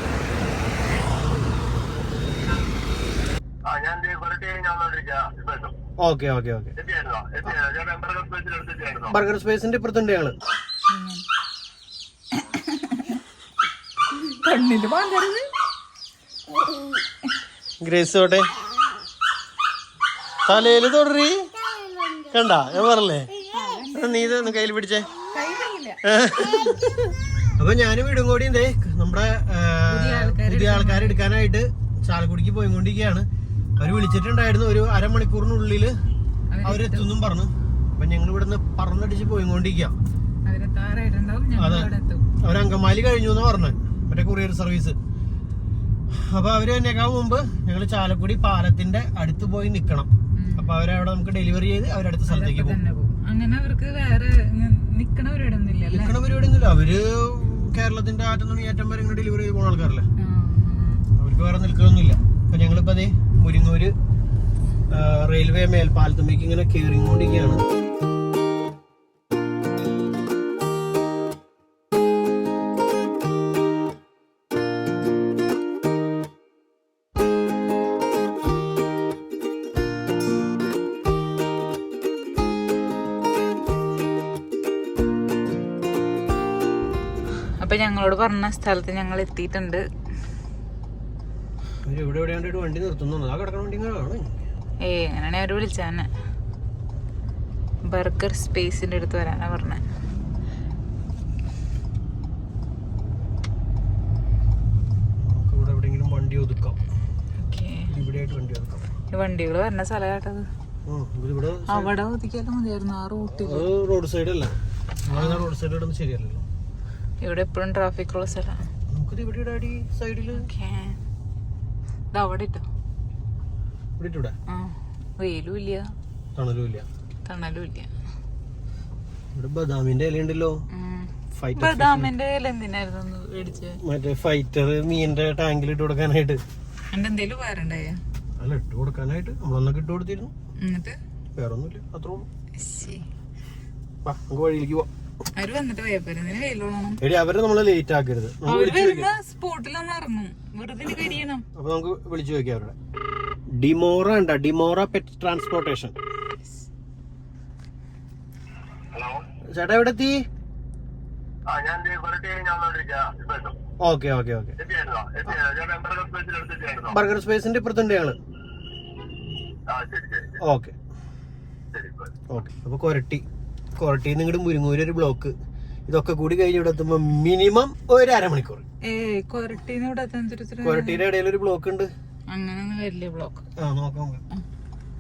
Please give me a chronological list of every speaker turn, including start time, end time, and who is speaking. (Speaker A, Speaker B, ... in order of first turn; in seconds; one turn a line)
Speaker A: 3.6-5.8
Speaker B: 6.0-6.8
Speaker A: 6.8-9.1
Speaker B: 9.1-10.4
Speaker C: 10.9-11.2
Speaker C: 12.3-13.2
Speaker C: 14.1-15.5
Speaker B: 17.8-18.5
Speaker B: 20.5-21.5
Speaker B: 22.2-23.3
Speaker C: 23.4-24.6
Speaker B: 23.9-25.1
Speaker C: 25.3-26.0
Speaker B: 26.1-33.3
Speaker C: 29.9-31.2
Speaker B: 33.8-36.0
Speaker C: 36.5-37.1
Speaker B: 36.6-39.9
Speaker C: 40.5-42.3
Speaker B: 41.6-45.0
Speaker B: 46.1-52.8
Speaker C: 50.4-50.8
Speaker C: 52.3-56.2
Speaker B: 55.9-60.1
Speaker C: 60.2-61.1
Speaker B: 61.2-63.9
Speaker B: 64.9-67.6
Speaker C: 87.6-89.8
Speaker B: 91.9-94.3
Speaker C: 94.8-96.1
Speaker C: 97.9-99.8
Speaker B: 105.2-106.8
Speaker C: 107.4-107.9
Speaker B: 107.9-108.9
Speaker C: 109.1-110.5
Speaker B: 110.9-111.9
Speaker C: 111.7-113.7
Speaker B: 113.3-114.5
Speaker B: 115.1-116.5
Speaker C: 115.1-115.5
Speaker C: 117.2-118.7
Speaker B: 118.9-120.5
Speaker C: 120.3-121.0
Speaker C: 122.1-122.7
Speaker B: 124.0-124.3
Speaker C: 124.5-125.9
Speaker B: 126.4-126.9
Speaker C: 127.3-127.9
Speaker B: 129.3-130.6
Speaker C: 130.7-133.8
Speaker B: 131.3-132.1
Speaker B: 133.8-136.4
Speaker C: 136.9-138.0
Speaker B: 138.4-140.3
Speaker C: 140.6-141.0
Speaker B: 141.4-142.3
Speaker C: 142.6-143.1
Speaker B: 144.0-144.9
Speaker C: 145.4-147.0
Speaker B: 147.0-149.1
Speaker C: 148.5-151.4
Speaker B: 151.5-152.8
Speaker B: 153.6-155.9
Speaker A: 158.9-159.2
Speaker B: 159.5-160.2
Speaker A: 161.5-163.6
Speaker B: 163.8-164.6
Speaker A: 164.6-166.9
Speaker B: 166.9-168.2
Speaker A: 169.7-170.3
Speaker B: 170.4-170.8
Speaker A: 171.7-172.1
Speaker B: 172.3-173.2
Speaker B: 173.8-175.3
Speaker B: 175.9-178.6
Speaker C: 178.8-181.1
Speaker B: 180.6-181.9
Speaker C: 182.3-183.4
Speaker B: 183.6-184.2